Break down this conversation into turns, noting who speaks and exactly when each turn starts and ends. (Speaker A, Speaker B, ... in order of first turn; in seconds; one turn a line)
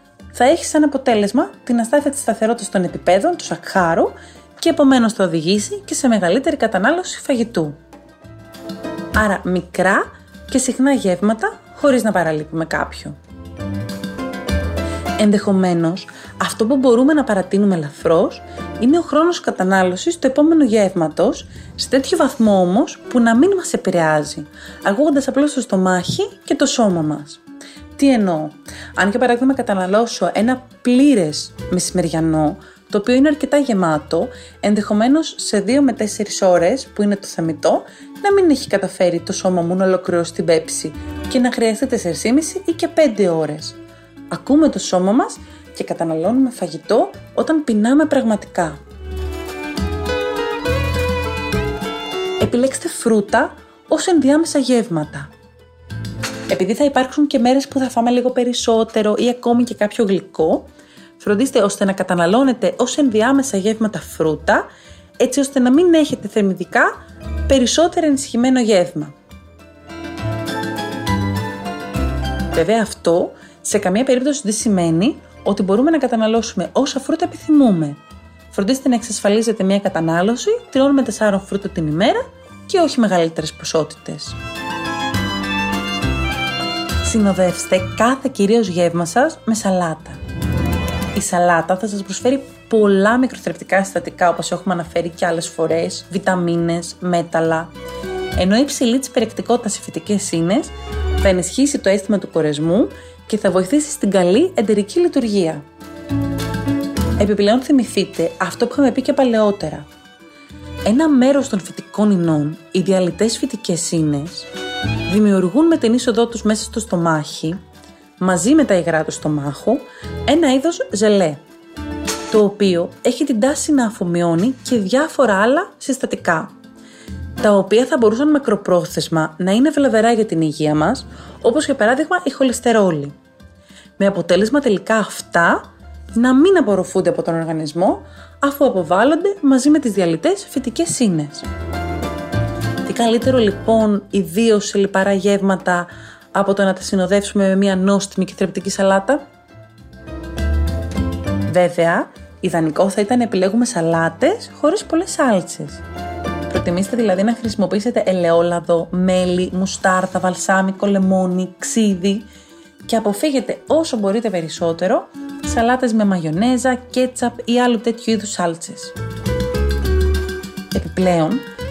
Speaker A: 0.3-7.8
Speaker A: 9.1-13.2
Speaker A: 15.2-27.4
Speaker A: 27.9-43.8
Speaker A: 44.3-48.8
Speaker A: 52.4-55.3
Speaker A: 56.5-64.7
Speaker A: 65.2-67.0
Speaker A: 67.5-69.1
Speaker A: 72.5-78.0
Speaker A: 78.5-84.4
Speaker A: 87.0-90.2
Speaker A: 91.1-97.7
Speaker A: 98.4-105.6
Speaker A: 107.2-109.9
Speaker A: 110.8-114.5
Speaker A: 115.1-117.6
Speaker A: 118.2-121.4
Speaker A: 122.3-126.5
Speaker A: 127.4-133.2
Speaker A: 134.0-141.5
Speaker A: 142.8-149.2
Speaker A: 151.5-155.8
Speaker A: 156.5-162.3
Speaker A: 162.8-168.9
Speaker A: 170.7-171.5